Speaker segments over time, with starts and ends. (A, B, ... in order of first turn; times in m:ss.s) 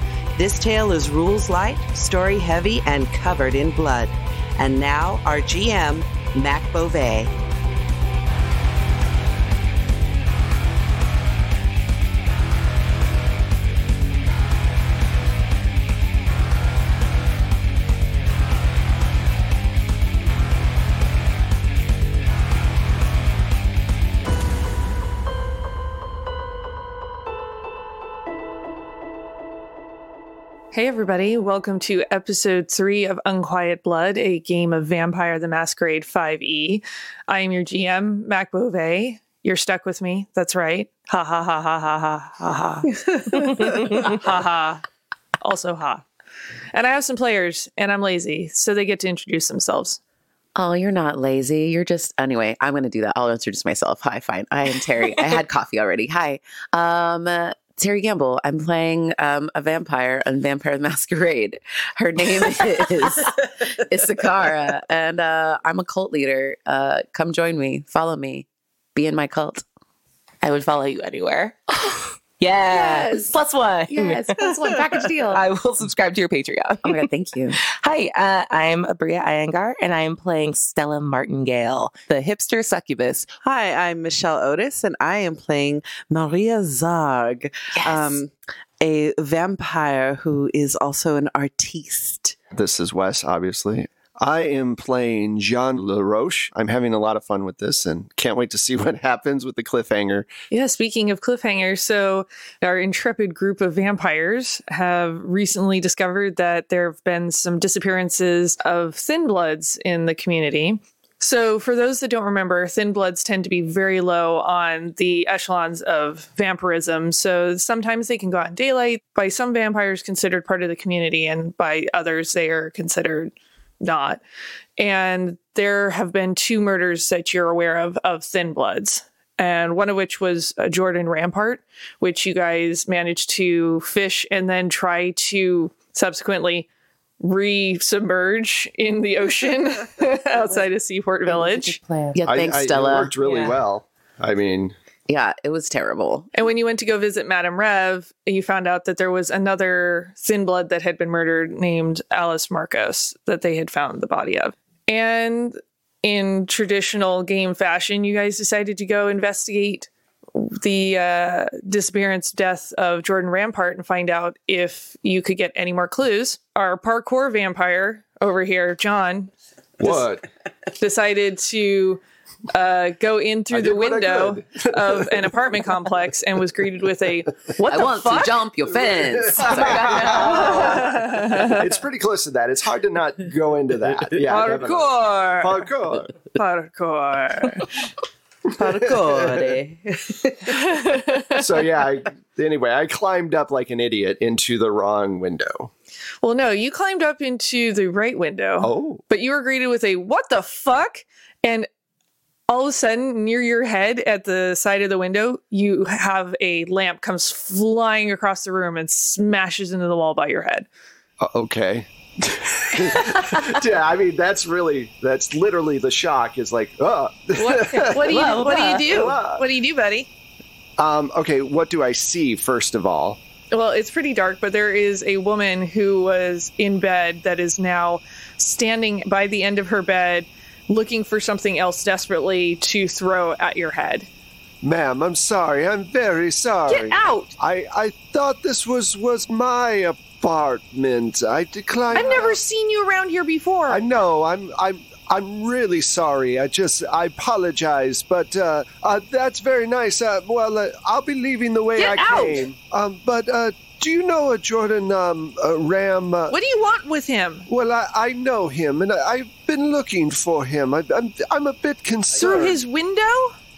0:00.4-0:07.3 A
0:30.7-0:44.8 B
0:43.4-0:44.2 C
0:45.4-0:46.0 B
0:46.7-0:50.0 B
0:50.5-1:09.6 D
1:10.4-1:14.4 C
1:12.7-1:13.4 D
1:13.9-1:15.4 D
1:15.3-1:17.0 C
1:16.8-1:17.6 D
1:17.6-1:23.3 C
1:23.4-1:32.3 A
1:27.8-1:28.2 C
1:32.5-1:40.3 E
1:40.5-2:04.2 B
2:04.8-2:16.7 B
2:17.2-2:21.8 B
2:21.3-2:22.2 C
2:22.1-2:23.1 D
2:22.3-2:24.7 E
2:23.2-2:23.5 C
2:25.1-2:26.3 D
2:26.3-2:50.0 B
2:49.8-2:50.2 E
2:50.7-2:58.4 B
2:53.5-2:55.3 E
2:57.6-3:00.2 D
2:58.8-3:06.2 E
3:00.1-3:00.6 A
3:00.1-3:01.7 B
3:04.2-3:05.7 B
3:06.3-3:07.8 B
3:08.5-3:10.5 A
3:08.6-3:09.5 E
3:10.5-3:11.4 B
3:11.4-3:15.7 E
3:16.2-3:21.7 B
3:18.6-3:19.0 E
3:22.5-3:30.7 B
3:31.2-3:38.2 E
3:37.4-3:40.1 B
3:37.8-3:38.9 C
3:38.9-3:39.4 E
3:40.8-3:43.2 E
3:43.5-3:54.1 B
3:54.6-4:02.4 E
3:56.7-3:57.3 B
4:01.9-4:03.8 B
4:03.7-4:16.4 E
4:11.8-4:12.4 B
4:16.3-4:17.5 B
4:17.5-4:22.6 E
4:22.2-4:23.3 B